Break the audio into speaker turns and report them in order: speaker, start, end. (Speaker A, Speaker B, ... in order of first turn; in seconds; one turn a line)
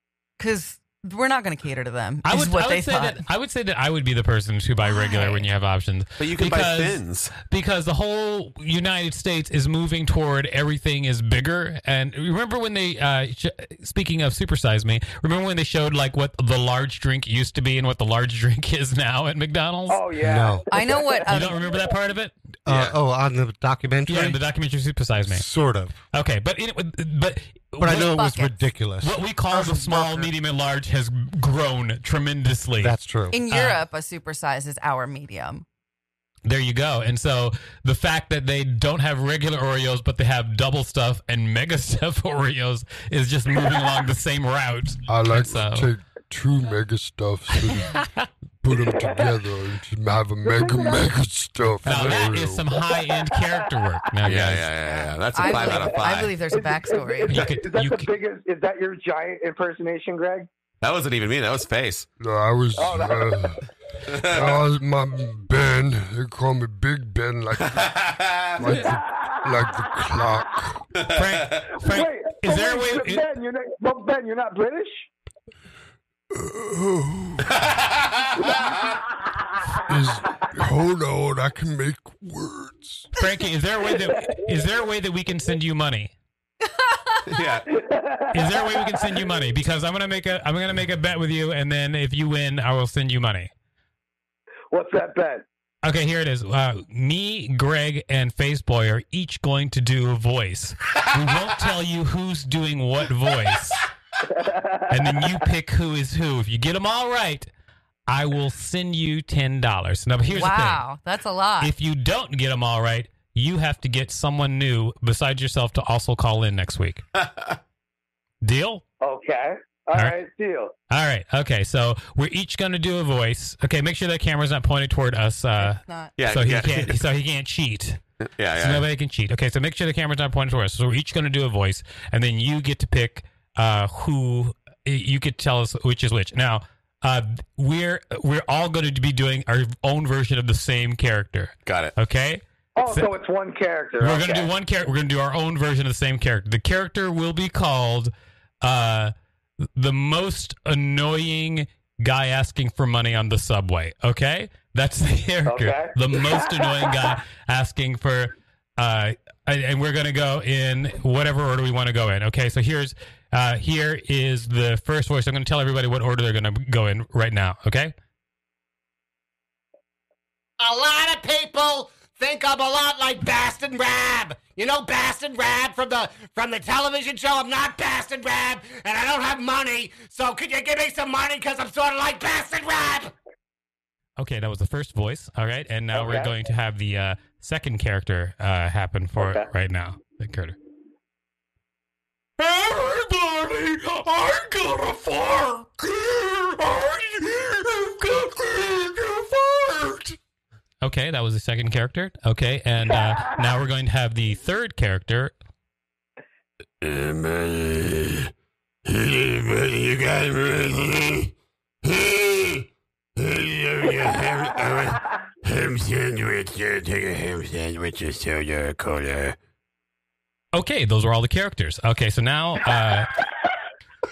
Speaker A: 0.4-3.2
Speaker B: 2.2-20.0
Speaker A: 4.8-5.5
Speaker C: 6.2-7.3
Speaker D: 19.9-21.8
Speaker E: 20.2-20.6
Speaker A: 20.7-21.7
Speaker B: 21.3-22.3
Speaker E: 22.6-24.4
Speaker C: 22.7-23.0
Speaker B: 24.1-25.5
Speaker E: 25.3-26.0
Speaker B: 26.1-28.1
Speaker E: 27.8-30.2
Speaker A: 27.9-28.5
Speaker B: 29.0-33.0
Speaker A: 29.5-30.2
Speaker E: 32.8-33.4
Speaker A: 33.3-35.6
Speaker B: 33.5-33.8
Speaker B: 36.5-45.9
Speaker F: 45.1-48.0
Speaker F: 48.6-52.8
Speaker D: 48.8-49.4
Speaker D: 50.4-51.1
Speaker B: 51.8-54.7
Speaker D: 53.0-53.7
Speaker C: 54.2-56.3
Speaker A: 55.3-57.4
Speaker D: 55.4-60.5
Speaker B: 57.3-58.1
Speaker C: 60.8-62.1
Speaker F: 62.2-63.6
Speaker D: 62.8-63.5
Speaker C: 64.1-64.5
Speaker F: 64.2-70.8
Speaker C: 67.6-68.6
Speaker D: 68.6-70.6
Speaker C: 71.0-71.6
Speaker B: 71.1-73.2
Speaker D: 71.8-75.1
Speaker F: 76.3-77.5
Speaker C: 77.5-78.2
Speaker D: 78.4-78.9
Speaker F: 79.9-83.1
Speaker B: 83.2-86.1
Speaker A: 86.7-87.2
Speaker C: 87.3-87.7
Speaker D: 87.7-89.2
Speaker B: 88.3-93.5
Speaker D: 94.7-95.5
Speaker B: 95.8-103.8
Speaker D: 104.2-105.3
Speaker B: 104.9-107.5
Speaker B: 108.1-110.8
Speaker A: 110.2-111.7
Speaker B: 111.6-117.0
Speaker C: 117.2-117.6
Speaker B: 118.4-118.8
Speaker D: 119.0-120.7
Speaker B: 120.9-128.0
Speaker A: 125.6-126.1
Speaker C: 126.2-127.0
Speaker C: 128.2-128.9
Speaker B: 128.6-143.1
Speaker C: 141.7-141.9
Speaker D: 142.8-144.5
Speaker B: 144.0-149.1
Speaker B: 149.8-167.9
Speaker D: 155.5-157.2
Speaker G: 170.6-183.1
Speaker B: 184.2-190.6
Speaker D: 185.9-186.4
Speaker D: 189.2-189.5
Speaker B: 192.4-195.7
Speaker B: 197.6-198.5
Speaker B: 200.8-205.3
Speaker B: 220.5-223.1